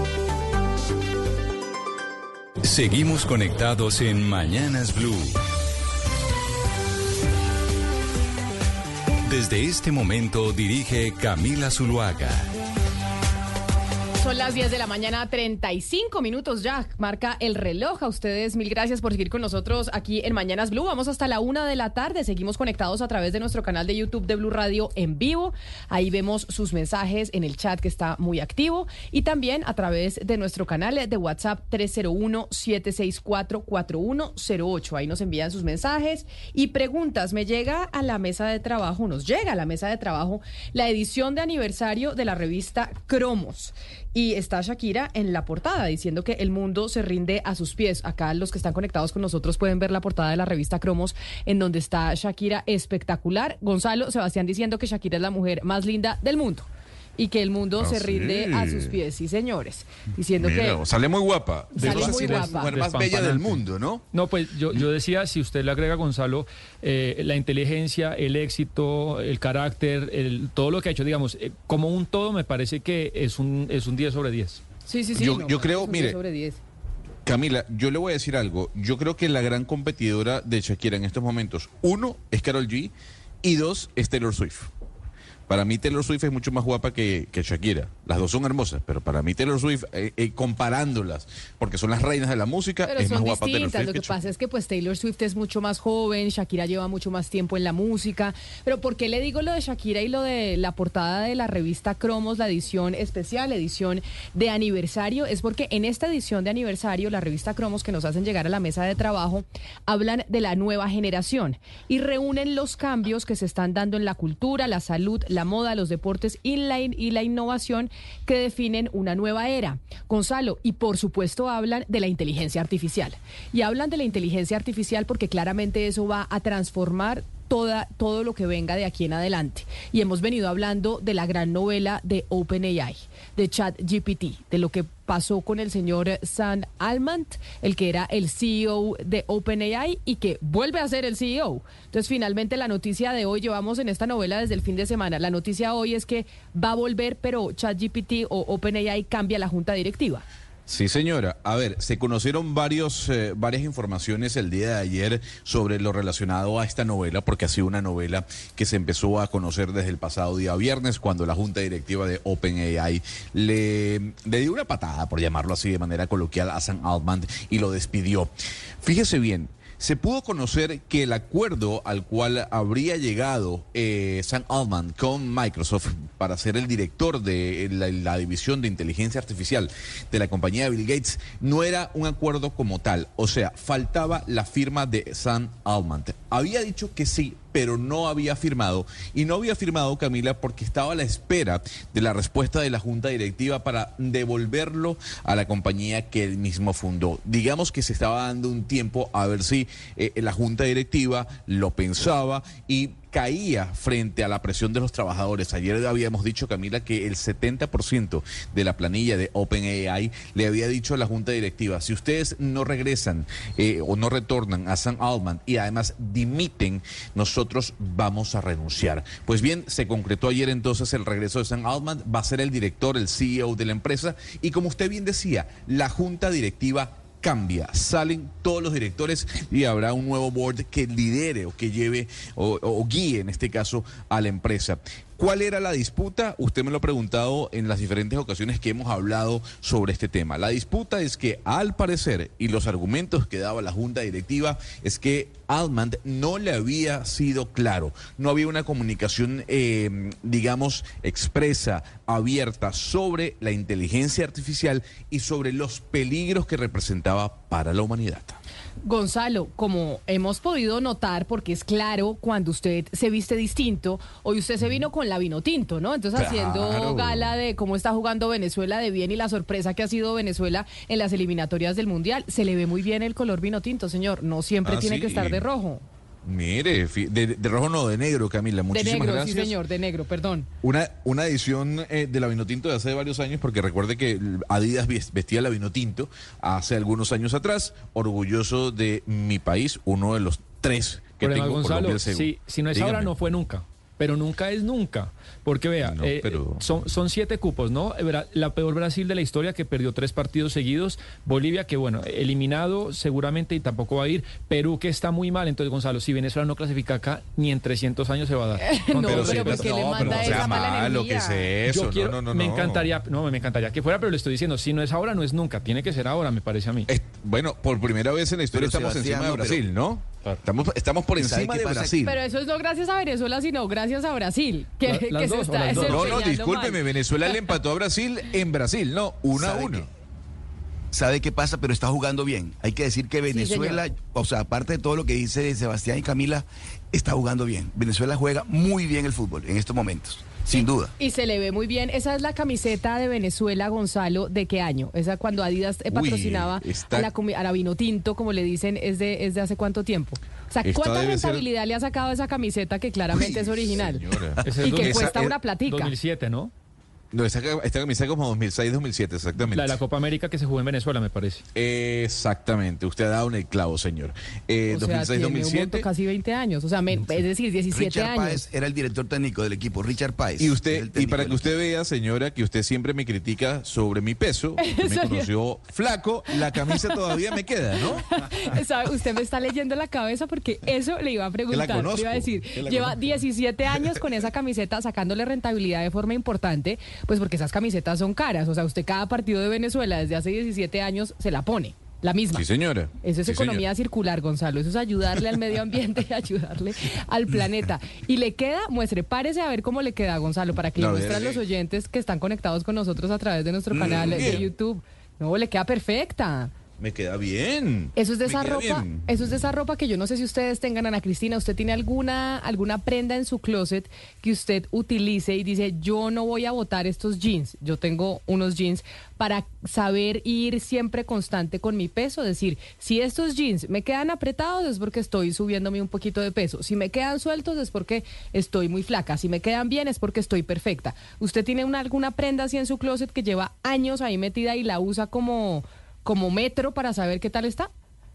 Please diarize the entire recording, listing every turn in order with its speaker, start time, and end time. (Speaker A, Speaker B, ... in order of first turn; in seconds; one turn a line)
Speaker A: 2.6-5.4
Speaker A: 9.2-12.5
Speaker B: 14.2-60.8
Speaker C: 57.8-59.0
Speaker C: 60.4-64.1
Speaker D: 61.8-74.6
Speaker B: 61.8-62.7
Speaker B: 74.9-76.6
Speaker C: 75.2-76.2
Speaker C: 77.3-82.9
Speaker C: 83.4-84.7
Speaker C: 85.5-94.2
Speaker B: 92.9-150.2
Speaker C: 150.7-168.3
Speaker C: 168.8-258.4
Speaker B: 258.9-275.8
Speaker C: 266.2-267.4
Speaker C: 274.6-275.4
Speaker C: 276.2-279.6
Speaker B: 278.7-280.5
Speaker C: 280.6-293.2
Speaker D: 291.2-310.5
Speaker C: 295.8-296.8
Speaker B: 308.6-311.5
Speaker C: 309.0-312.9
Speaker D: 311.7-316.9
Speaker C: 316.9-322.2
Speaker E: 318.5-319.6
Speaker E: 321.2-322.0
Speaker B: 322.1-326.8
Speaker D: 324.9-326.2
Speaker C: 325.7-329.9
Speaker E: 329.3-329.9
Speaker E: 330.9-340.9
Speaker B: 333.3-333.8
Speaker B: 340.6-354.0
Speaker C: 345.9-347.1
Speaker C: 350.6-351.4
Speaker C: 353.1-355.4
Speaker D: 354.4-356.5
Speaker B: 354.6-355.9
Speaker C: 357.1-359.8
Speaker D: 359.5-361.4
Speaker C: 361.6-365.9
Speaker B: 364.7-368.5
Speaker E: 367.7-371.5
Speaker C: 370.4-378.1
Speaker B: 374.6-375.3
Speaker B: 378.1-392.4
Speaker C: 381.5-383.1
Speaker C: 392.3-393.6
Speaker B: 393.0-406.5
Speaker C: 400.8-401.4
Speaker C: 403.7-404.5
Speaker C: 406.8-409.1
Speaker B: 408.0-437.7